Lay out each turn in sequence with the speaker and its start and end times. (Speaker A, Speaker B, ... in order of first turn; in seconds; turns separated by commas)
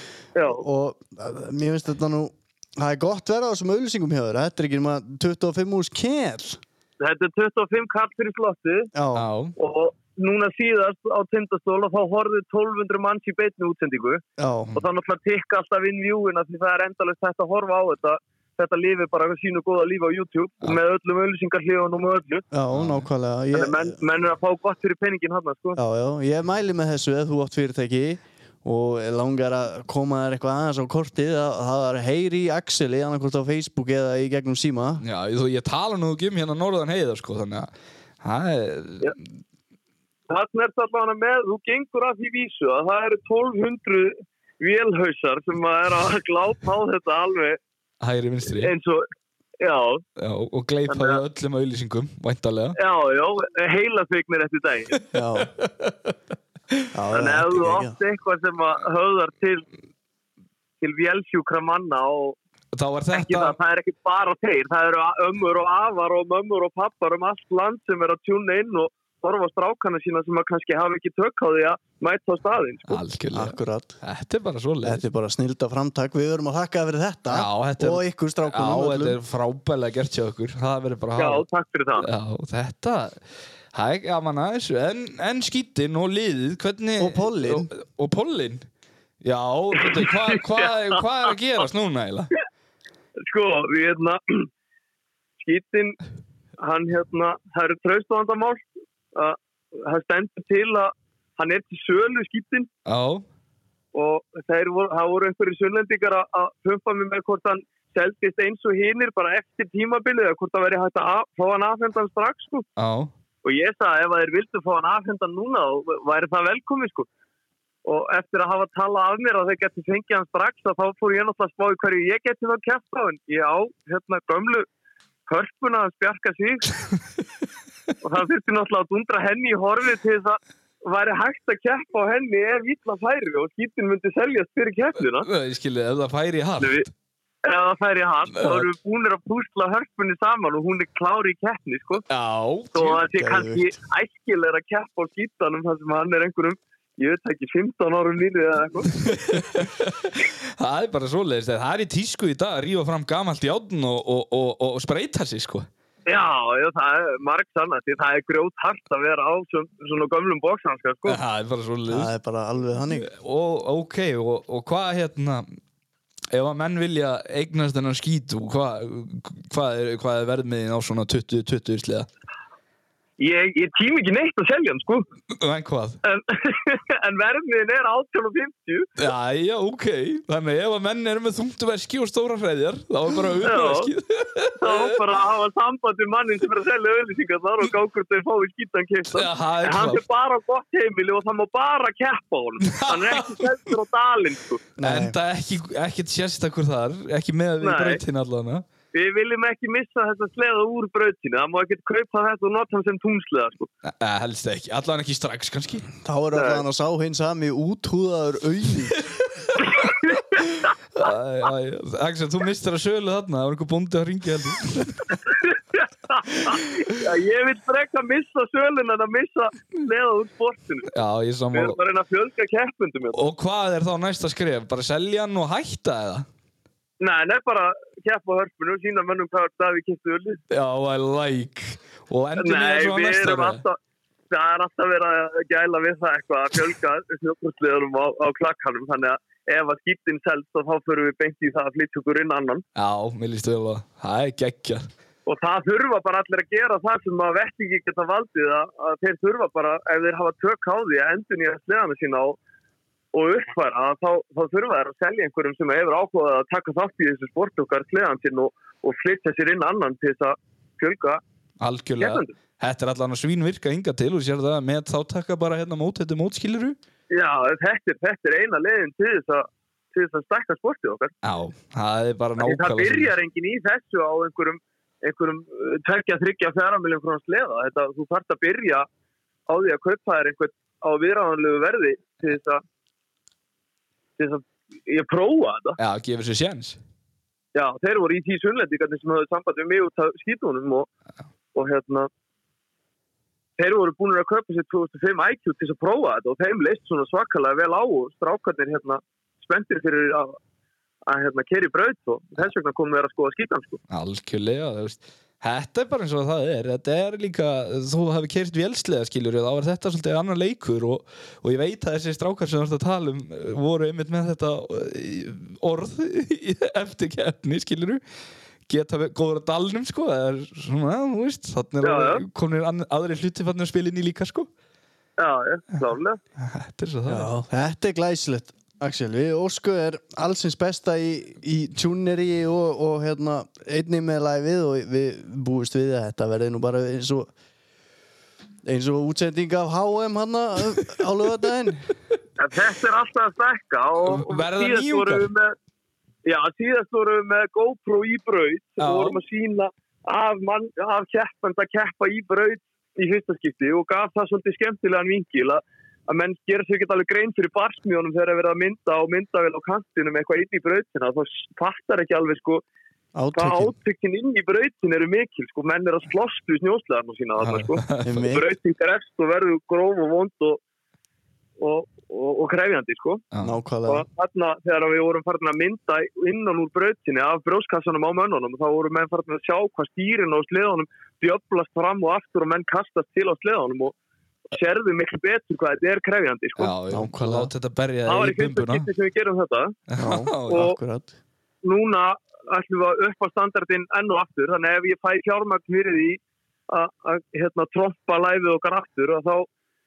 Speaker A: 0.3-0.6, Speaker B: 0.5-6.6, Speaker A: 7.0-8.9, Speaker B: 8.9-9.3, Speaker C: 9.1-9.5, Speaker A: 9.6-14.2, Speaker B: 14.4-14.7, Speaker A: 14.7-22.4, Speaker B: 22.5-24.0, Speaker C: 22.7-23.1, Speaker A: 23.5-25.8, Speaker B: 25.8-35.0, Speaker C: 35.0-37.7, Speaker C: 38.2-39.1, Speaker A: 40.3-47.6, Speaker C: 48.0-48.7, Speaker A: 48.6-49.0, Speaker A: 49.6-50.0, Speaker C: 50.2-52.8, Speaker A: 50.9-51.2, Speaker A: 52.8-55.0, Speaker B: 55.1-55.5, Speaker C: 55.4-56.1, Speaker B: 56.9-58.0, Speaker A: 57.1-59.6, Speaker A: 60.8-62.4, Speaker C: 62.7-63.5, Speaker A: 63.1-73.0, Speaker C: 72.9-75.0, Speaker B: 73.3-74.0, Speaker B: 74.8-79.2, Speaker C: 77.3-81.4, Speaker A: 81.2-82.1, Speaker C: 82.0-83.2, Speaker C: 83.7-88.7, Speaker B: 87.0-87.7, Speaker C: 89.2-92.3, Speaker A: 89.8-91.0, Speaker A: 93.3-94.5, Speaker A: 95.4-96.0, Speaker A: 96.6-102.7, Speaker C: 102.8-103.2, Speaker A: 103.9-112.7, Speaker C: 112.8-113.1, Speaker A: 113.4-117.1, Speaker A: 117.8-124.7, Speaker A: 125.3-126.7, Speaker A: 128.0-135.3, Speaker C: 135.2-136.9, Speaker A: 136.6-136.9, Speaker A: 137.4-142.0, Speaker C: 138.3-138.7, Speaker C: 142.0-143.0, Speaker A: 142.7-148.9, Speaker B: 143.1-143.7, Speaker C: 149.0-155.7, Speaker A: 156.1-161.2, Speaker C: 161.0-162.1, Speaker B: 161.9-163.1, Speaker C: 162.9-165.6, Speaker C: 166.3-172.1, Speaker A: 173.2-175.1, Speaker C: 175.3-176.0, Speaker A: 176.0-178.9, Speaker C: 179.0-185.0, Speaker A: 183.4-183.9, Speaker A: 184.6-194.6, Speaker C: 189.1-190.0, Speaker C: 192.7-193.6, Speaker B: 194.8-195.2, Speaker C: 194.8-198.6, Speaker A: 197.6-198.0, Speaker A: 198.9-203.7, Speaker C: 203.8-205.9, Speaker B: 206.0-208.9, Speaker A: 206.3-206.6, Speaker C: 209.1-215.1, Speaker A: 210.1-210.4, Speaker A: 215.2-220.9, Speaker C: 220.9-221.8, Speaker A: 221.5-223.2, Speaker C: 223.1-226.3, Speaker A: 227.0-230.4, Speaker C: 230.5-233.6, Speaker A: 232.4-233.8, Speaker A: 234.3-242.6, Speaker C: 242.8-244.9, Speaker A: 245.3-252.4, Speaker A: 253.1-261.2, Speaker C: 261.6-266.8, Speaker A: 262.0-262.3, Speaker A: 267.1-271.1, Speaker C: 271.2-273.1, Speaker A: 272.4-278.9, Speaker A: 279.5-282.6, Speaker A: 284.2-285.8, Speaker C: 285.8-286.8, Speaker A: 287.5-290.9, Speaker A: 291.5-292.1, Speaker A: 293.6-300.4, Speaker A: 301.1-303.8, Speaker C: 303.9-318.0, Speaker C: 318.7-324.5, Speaker A: 321.8-322.2, Speaker A: 325.2-326.2, Speaker C: 326.4-327.3, Speaker B: 327.1-337.3, Speaker B: 338.6-341.9, Speaker A: 342.4-345.5, Speaker C: 344.0-345.3, Speaker A: 346.2-362.6, Speaker C: 348.8-349.2, Speaker B: 363.1-363.7, Speaker A: 363.3-370.6, Speaker C: 367.4-368.3, Speaker B: 368.0-368.4, Speaker A: 371.6-373.2, Speaker B: 373.4-374.1, Speaker A: 373.9-383.9, Speaker A: 384.5-386.7, Speaker C: 386.6-388.9, Speaker B: 386.9-387.5, Speaker A: 388.1-389.7, Speaker C: 389.9-390.7, Speaker B: 390.0-391.1, Speaker A: 390.5-390.7, Speaker A: 391.6-399.5